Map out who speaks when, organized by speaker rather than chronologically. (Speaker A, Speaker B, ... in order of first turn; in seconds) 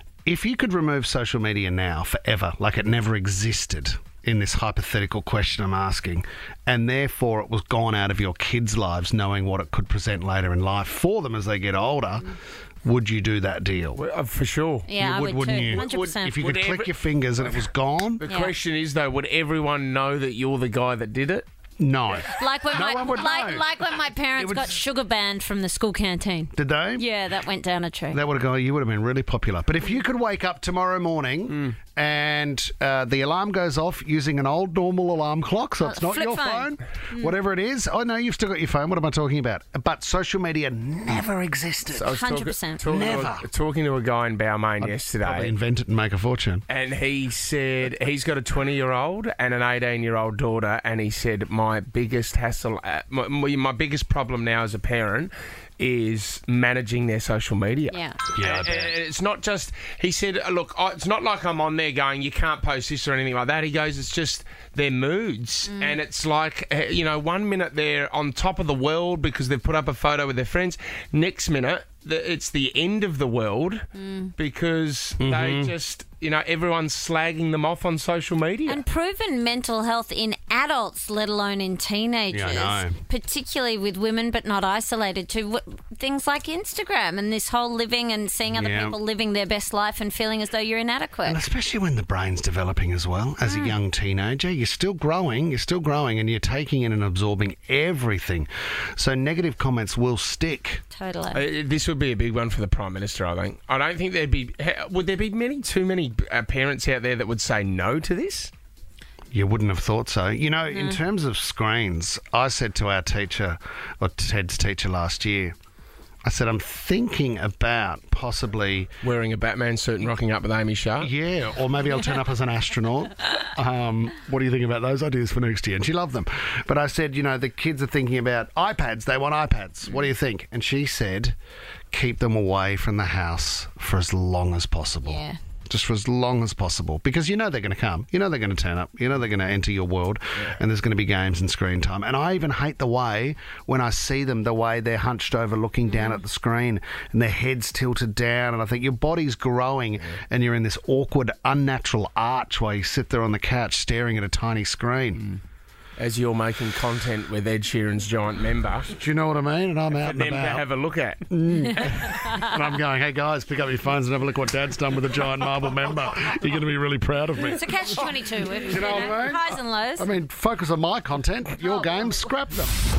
Speaker A: 0.2-14.0, 14.9-18.2, 21.8-23.7, 24.3-24.8, 26.5-27.1, 28.1-42.1, 42.9-43.5, 44.8-46.6, 58.3-58.9, 75.2-75.7, 82.3-83.0, 88.5-89.0, 91.2-100.8, 109.3-115.5, 116.2-118.9, 121.0-131.3, 131.9-155.3, 158.9-160.6, 161.3-167.7, 168.7-172.7
Speaker B: 13.9-14.9, 15.5-17.6, 18.2-21.4, 41.9-45.5, 46.7-78.8, 101.3-108.5, 119.0-121.1, 156.0-158.9, 159.9-161.2
Speaker C: 14.9-16.4, 18.3-18.5, 22.3-28.2, 35.8-37.3, 42.1-43.0, 57.9-58.2, 65.7-66.0, 74.0-74.3, 78.7-91.4, 93.4-93.7, 100.9-101.4, 110.7-111.0, 135.0-135.4, 145.9-146.2, 167.4-170.1, 171.6-172.0